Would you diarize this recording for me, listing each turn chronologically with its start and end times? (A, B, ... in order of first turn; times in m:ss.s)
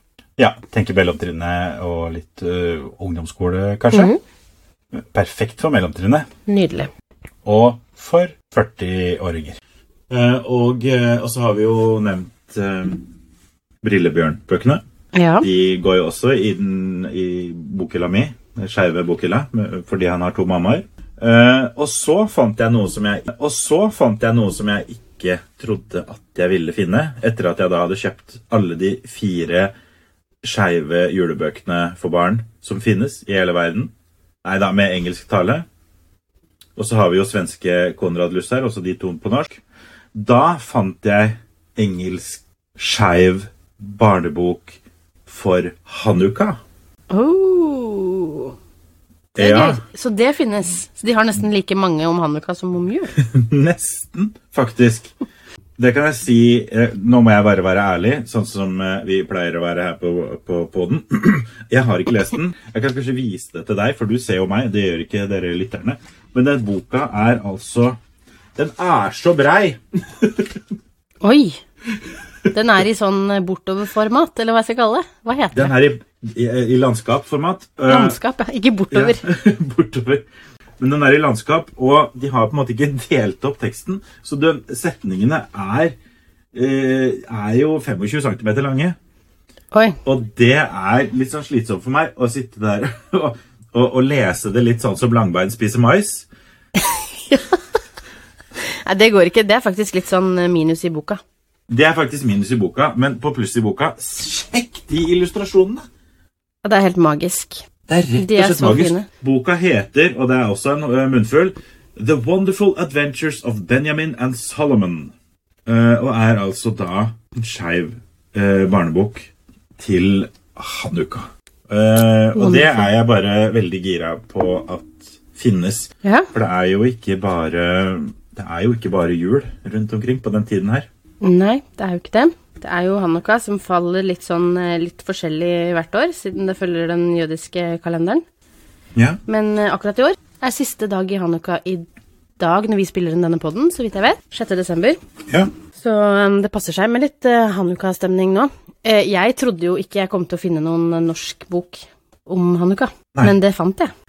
0:00.4-0:04.1 A
0:03.9-0:04.2 B
0:04.9-0:06.3 A
0:06.5-0:06.9 B
0:07.4-0:09.6 A
0:10.1-0:13.0 A
0:13.8-0:14.8 A
0:15.1-0:15.4 B
0:15.4-0:29.7 A
0:30.4-0:33.9 A
0:34.4-0:35.6 A
0:36.8-0:39.6 A
0:40.1-0:46.6 A
0:47.1-0:48.5 B
0:49.3-0:53.1 B
0:49.4-0:49.8 A
0:53.2-0:55.1 A
0:55.8-1:08.0 A
1:08.6-1:10.6 A
1:11.2-1:11.6 B
1:12.5-1:15.7 B
1:15.5-1:18.2 A
1:17.9-1:19.2 B
1:18.9-1:20.2 A
1:20.8-1:25.9 A
1:26.5-1:29.0 A
1:29.7-1:30.0 B
1:30.0-1:36.3 A
1:36.8-1:37.6 B
1:38.6-1:41.2 B
1:41.7-1:45.8 A
1:46.6-1:47.6 B
1:47.9-1:55.1 A
1:48.2-1:49.1 B
1:55.6-2:10.9 A
2:02.3-2:02.9 B
2:06.0-2:06.3 B
2:11.2-2:18.2 B
2:19.3-2:21.9 B
2:22.4-2:25.0 B
2:25.8-2:33.9 B